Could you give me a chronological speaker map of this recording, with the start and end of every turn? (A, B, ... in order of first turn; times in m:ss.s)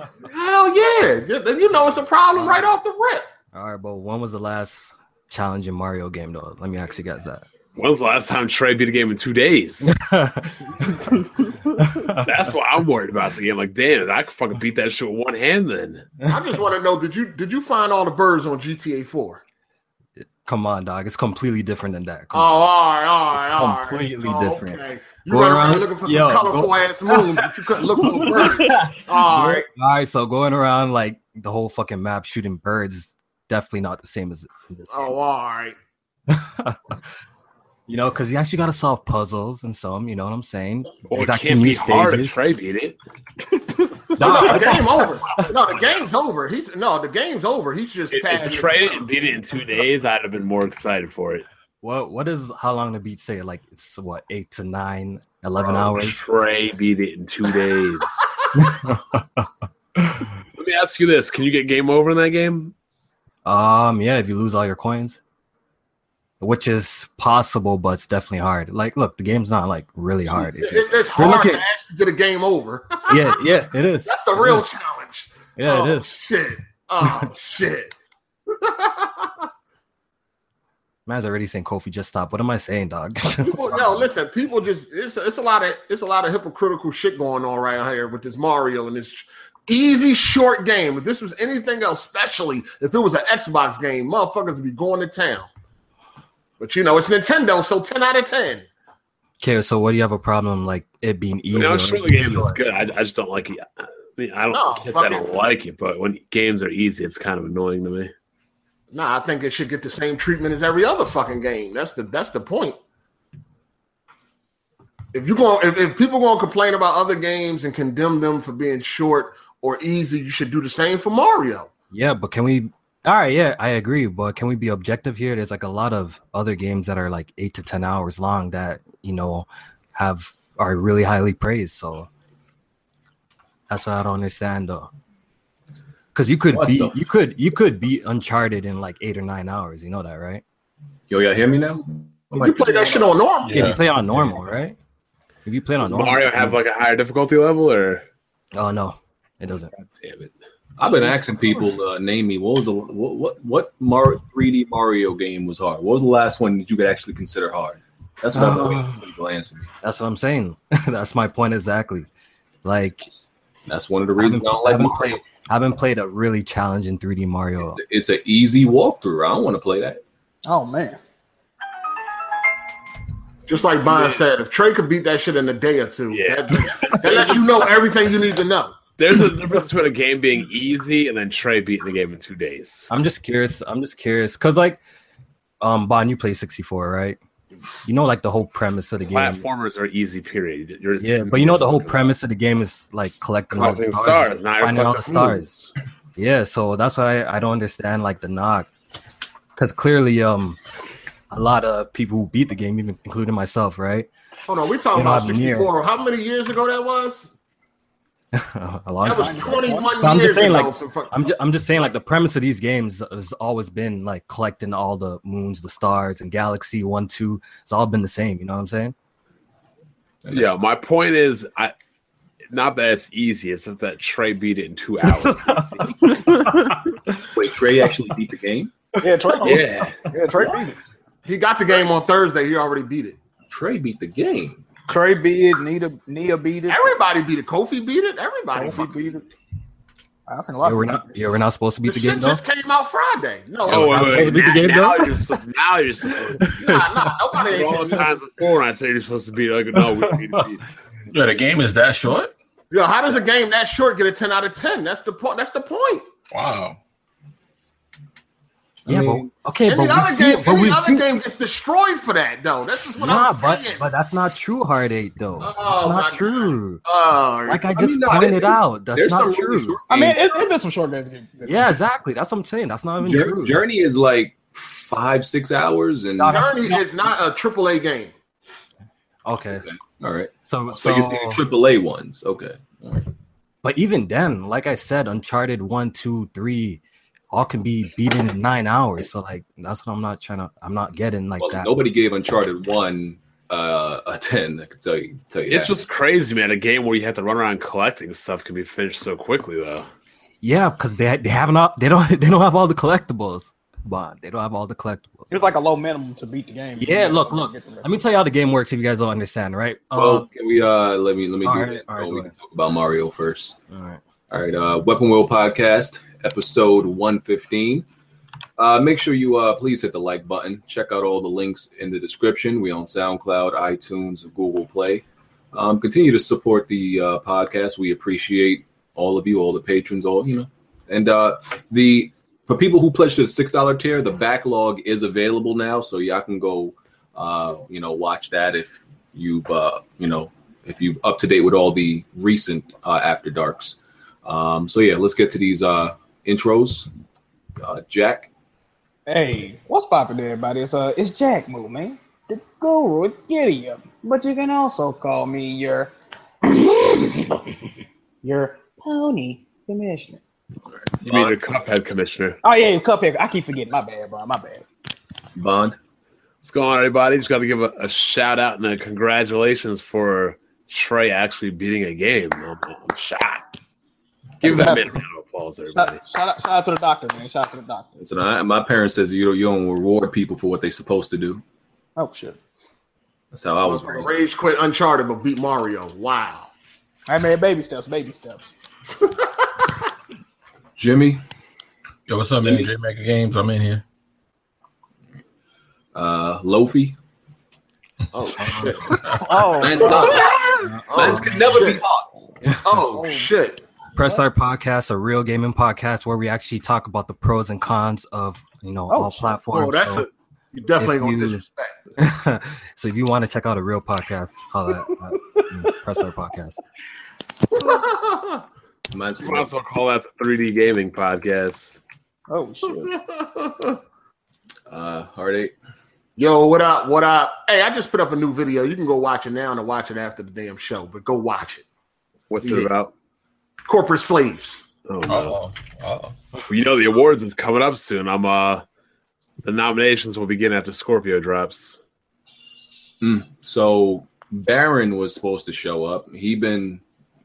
0:00.2-0:03.3 A
0:03.5-0:07.4 B
0:07.8-0:10.0 C
0:09.8-0:11.2 B
0:10.8-0:11.9 D
0:11.8-0:12.3 B
0:12.2-0:16.0 C
0:16.3-0:19.4 A
0:20.2-0:22.5 B
0:22.3-0:29.7 A
0:23.3-0:27.5 B
0:28.0-0:28.5 B
0:29.1-0:35.1 B
0:34.9-0:35.8 A
0:36.3-0:36.8 B
0:37.9-0:42.4 B
0:41.1-0:43.0 C
0:44.2-0:45.5 B
0:44.2-0:49.0 A
0:48.1-0:51.4 C
0:51.8-0:56.2 B
0:55.6-0:58.3 C
0:58.5-0:59.4 B
1:00.0-1:00.2 B
1:00.6-1:02.7 C
1:03.4-1:05.2 B
1:06.4-1:11.6 B
1:10.3-1:13.4 A
1:13.1-1:14.6 B
1:14.0-1:17.9 A
1:15.6-1:16.1 B
1:17.0-1:17.3 B
1:18.5-1:19.5 A
1:21.0-1:24.1 B
1:23.4-1:35.5 A
1:36.6-1:38.6 A
1:39.4-1:42.6 B
1:41.5-1:48.1 C
1:44.5-1:45.2 A
1:48.9-1:52.8 A
1:55.1-2:01.7 A
2:01.9-2:12.1 B
2:13.7-2:14.9 B
2:16.1-2:20.4 B
2:16.5-2:17.0 E
2:21.1-2:23.1 E
2:22.3-2:23.7 A
2:23.4-2:23.8 F
2:23.5-2:24.8 B
2:25.4-2:26.6 B
2:25.8-2:28.0 C
2:28.5-2:29.7 B
2:29.7-2:30.4 C
2:30.8-2:39.7 E
2:38.3-2:39.0 B
2:39.8-2:42.1 B
2:42.6-2:43.1 B
2:43.7-2:45.2 E
2:44.2-2:47.8 B
2:47.7-2:50.0 E
2:50.4-2:51.0 D
2:53.5-2:58.8 A
2:53.8-2:54.2 C
2:56.1-2:57.5 C
2:56.7-2:57.2 B
2:59.0-3:02.9 C
3:02.9-3:04.8 B
3:05.6-3:07.2 B
3:07.8-3:09.4 B
3:09.1-3:12.2 C
3:11.0-3:15.5 B
3:13.5-3:15.7 C
3:16.2-3:18.7 B
3:19.6-3:20.6 B
3:21.3-3:24.1 B
3:24.5-3:27.3 A
3:24.9-3:25.7 B
3:28.3-3:38.9 B
3:29.0-3:31.3 A
3:29.1-3:29.9 D
3:40.2-3:40.5 E
3:40.3-3:41.7 C
3:42.5-3:46.0 C
3:45.1-3:46.7 B
3:46.1-3:46.8 D
3:47.3-3:48.7 E
3:49.0-3:50.8 D
3:49.4-3:50.0 C
3:51.2-3:53.2 A
3:53.5-3:54.6 E
3:54.9-3:57.0 D
3:56.7-3:59.0 A
3:58.5-3:59.2 D
4:00.3-4:01.2 D
4:00.6-4:02.4 B
4:01.8-4:04.5 A
4:03.7-4:06.5 C
4:03.7-4:05.4 B
4:06.4-4:07.1 B
4:06.6-4:08.1 A
4:07.4-4:10.6 C
4:11.1-4:12.3 F
4:12.7-4:16.0 A
4:16.3-4:16.8 F
4:18.9-4:19.3 E
4:18.9-4:21.2 B
4:19.7-4:23.9 A
4:23.0-4:26.8 B
4:25.4-4:27.7 A
4:27.5-4:29.8 B
4:27.7-4:30.2 E
4:29.9-4:31.7 D
4:31.4-4:33.6 B
4:33.0-4:36.5 E
4:36.2-4:37.0 B
4:36.3-4:38.1 A
4:39.2-4:39.6 B
4:39.6-4:43.1 E
4:40.5-4:41.4 B
4:43.6-4:46.8 B
4:47.3-4:51.7 B
4:51.4-4:55.7 E
4:55.5-4:59.9 C
5:00.4-5:05.6 B
5:05.3-5:08.0 D
5:06.8-5:10.3 B
5:10.0-5:13.6 E
5:11.4-5:12.3 B
5:13.7-5:14.0 B
5:14.3-5:17.8 E
5:18.6-5:46.9 E
5:47.6-5:48.3 E
5:49.1-5:55.9 D
5:56.4-5:57.7 D
5:58.2-6:00.2 D
6:00.8-6:01.3 E
6:01.0-6:02.4 C
6:02.4-6:04.7 D
6:05.4-6:05.8 E
6:06.4-6:13.6 C
6:14.4-6:16.0 C
6:14.4-6:15.0 D
6:15.7-6:17.9 D
6:18.0-6:21.4 E
6:22.0-6:22.4 D
6:23.3-6:24.2 E
6:23.6-6:26.5 A
6:27.1-6:28.5 D
6:30.8-6:31.2 E
6:32.1-6:33.8 F
6:35.9-6:37.0 E
6:38.1-6:39.0 A
6:38.9-6:39.2 F
6:39.1-6:40.6 D
6:39.6-6:42.1 E
6:39.8-6:41.8 A
6:40.7-6:41.4 B
6:42.5-6:42.8 B
6:42.6-6:43.6 A
6:42.9-6:43.3 D
6:44.0-6:50.1 B
6:48.9-6:49.4 D
6:49.5-6:51.9 A
6:50.8-6:51.4 B
6:52.0-6:56.6 B
6:55.4-6:55.7 D
6:57.5-6:58.4 A
6:58.9-6:59.5 E
6:59.2-7:01.8 C
7:02.3-7:02.9 D
7:02.7-7:03.8 A
7:04.7-7:05.5 E
7:06.2-7:11.6 A
7:12.3-7:12.9 C
7:12.4-7:12.7 A
7:13.6-7:14.6 A
7:14.9-7:15.4 C
7:15.1-7:16.2 F
7:16.5-7:18.6 C
7:19.4-7:21.8 C
7:23.0-7:26.8 E